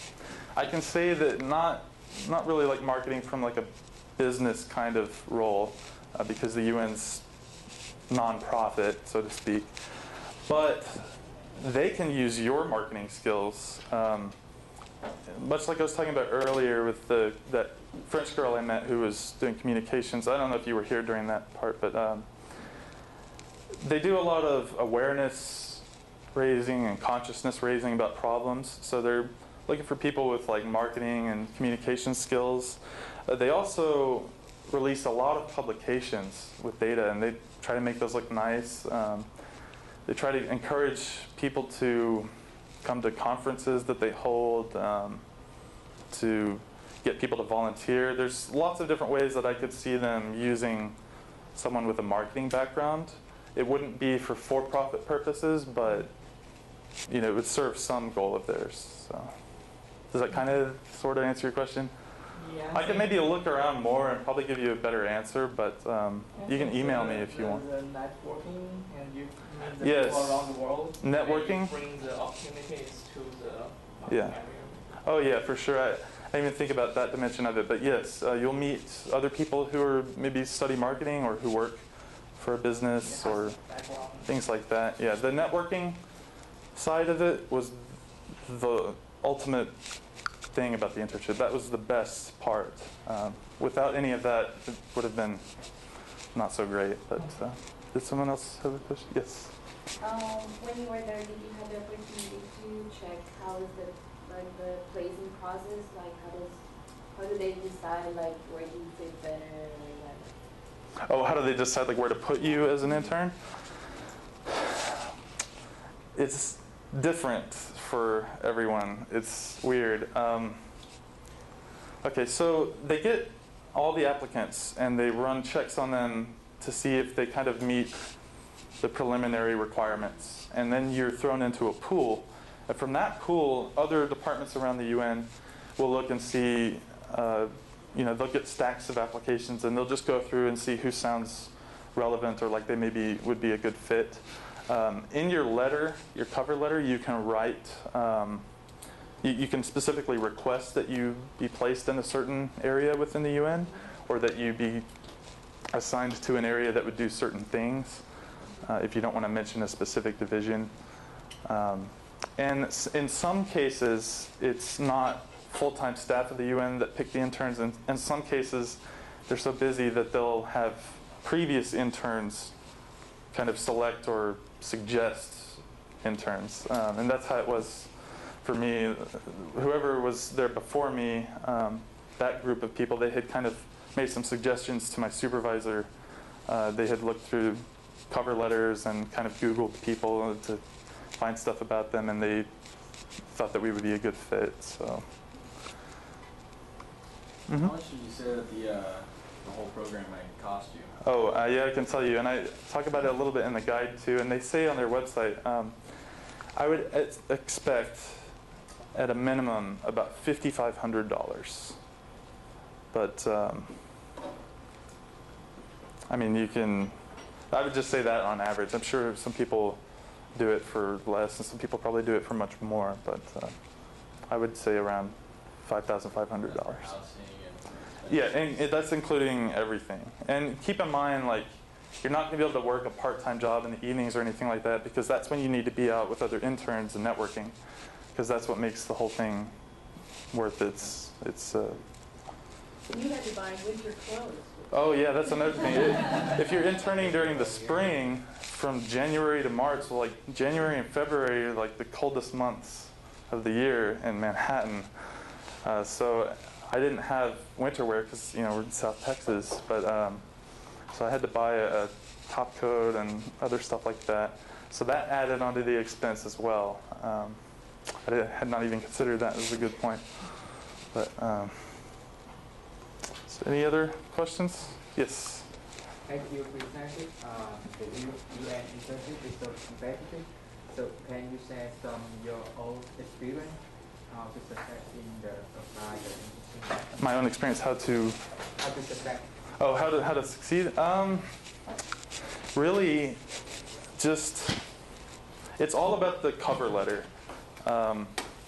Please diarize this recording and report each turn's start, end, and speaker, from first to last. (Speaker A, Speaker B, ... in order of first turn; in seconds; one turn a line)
Speaker A: 0.5-7.2
Speaker A: 8.1-9.7
Speaker A: 10.4-14.3
Speaker A: 15.3-22.3
Speaker A: 23.8-39.3
Speaker A: 40.0-42.3
Speaker A: 42.8-45.2
Speaker A: 46.1-51.0
Speaker A: 51.5-56.1
Speaker A: 57.1-59.3
Speaker A: 60.0-61.9
Speaker B: 62.3-63.2
Speaker A: 62.7-67.6
Speaker B: 66.3-74.9
Speaker A: 69.8-71.7
Speaker A: 74.1-74.4
Speaker A: 75.0-83.6
Speaker B: 83.0-84.4
Speaker A: 84.2-86.0
Speaker A: 86.7-89.8
Speaker A: 90.5-95.7
Speaker A: 96.3-99.5
Speaker C: 100.0-106.6
Speaker C: 107.1-110.3
Speaker A: 111.1-113.3
Speaker A: 116.1-120.7
Speaker A: 122.0-128.0
Speaker A: 128.8-148.4
Speaker A: 149.2-154.9
Speaker A: 155.7-158.0
Speaker A: 158.6-160.7
Speaker A: 161.4-172.5
Speaker A: 173.3-185.9
Speaker A: 186.4-195.1
Speaker A: 197.5-197.7
Speaker D: 197.5-200.9
Speaker A: 201.0-205.8
Speaker A: 206.5-208.3
Speaker A: 208.9-211.8
Speaker A: 212.9-213.8
Speaker A: 216.1-216.9
Speaker A: 217.5-219.8
Speaker A: 220.3-226.9
Speaker D: 226.4-228.6
Speaker A: 228.1-237.6
Speaker A: 238.1-239.5
Speaker A: 240.3-241.8
Speaker E: 242.9-246.1
Speaker A: 244.7-255.1
Speaker F: 247.0-247.8
Speaker A: 255.6-260.3
Speaker A: 260.9-271.9
Speaker A: 273.3-275.5
Speaker F: 276.0-286.9
Speaker A: 286.9-288.2
Speaker F: 288.6-289.3
Speaker A: 289.6-291.4
Speaker A: 292.5-293.2
Speaker A: 293.9-294.6
Speaker A: 295.6-297.1
Speaker A: 297.6-298.2